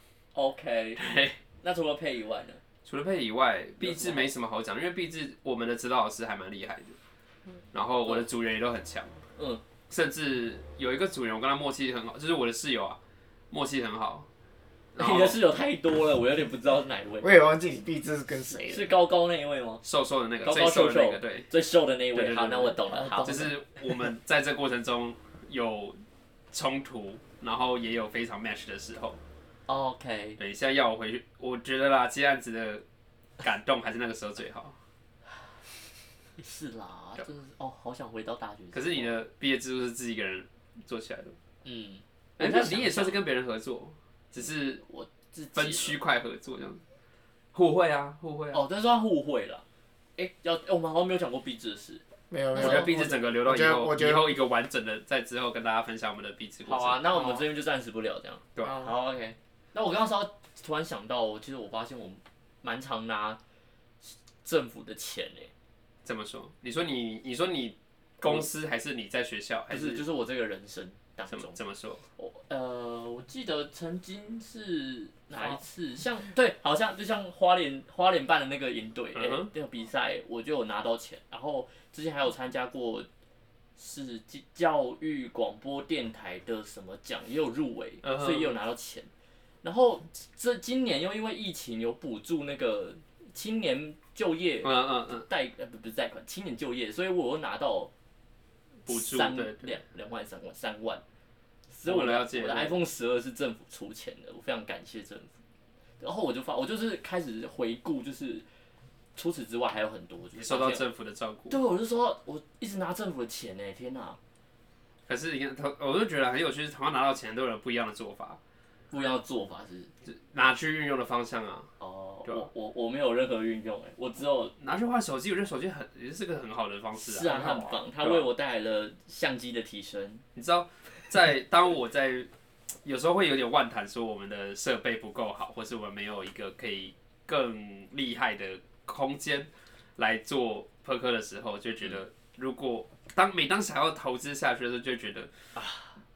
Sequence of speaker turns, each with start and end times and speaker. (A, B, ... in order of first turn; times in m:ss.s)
0:00.3-0:01.0 A
0:01.0-0:01.4 B
0:01.6-0:02.6 A
0:02.8-0:07.0 B
0:03.8-0:04.3 A
0:07.7-0:09.2 B
0:09.4-0:09.6 A
0:09.9-0:13.0 B
0:13.5-0:14.3 B
0:14.9-0:15.4 B
0:15.0-0:17.4 A
0:17.2-0:18.9 C
0:18.6-0:19.8 A
0:19.8-0:21.5 B
0:20.4-0:23.6 A
0:22.1-0:26.0 B
0:23.0-0:23.4 C
0:26.5-0:29.2 B
0:29.7-0:30.4 A
0:30.4-0:32.8 B
0:33.4-0:34.7 B
0:36.4-0:39.1 A
0:38.7-0:41.4 B
0:41.6-0:43.2 A
0:42.4-0:44.8 B
0:44.8-0:46.0 A
0:45.5-0:46.8 B
0:47.5-0:48.6 B
0:48.5-0:49.6 A
0:50.2-0:52.0 A
0:52.3-0:54.3 C
0:52.5-0:52.9 A
0:52.5-0:57.1 B
0:56.6-1:03.4 A
0:58.6-0:58.9 C
1:04.0-1:05.5 A
1:06.0-1:10.0 B
1:08.2-1:08.5 A
1:09.7-1:11.6 A
1:11.3-1:12.0 B
1:12.2-1:23.1 A
1:19.1-1:19.5 B
1:23.8-1:29.1 A
1:28.0-1:28.6 B
1:29.6-1:37.9 A
1:34.6-1:35.2 B
1:38.8-1:39.7 B
1:38.8-1:41.0 A
1:41.7-1:45.3 A
1:41.8-1:42.8 B
1:46.0-1:48.4 A
1:49.1-1:50.8 A
1:50.4-1:51.6 B
1:51.5-1:54.2 A
1:55.1-1:58.4 B
1:58.9-1:59.9 A
2:00.0-2:01.7 B
2:01.8-2:04.5 A
2:04.6-2:08.3 B
2:07.0-2:10.2 A
2:07.4-2:07.7 C
2:10.3-2:12.3 B
2:12.8-2:25.3 B
2:25.6-2:25.9 A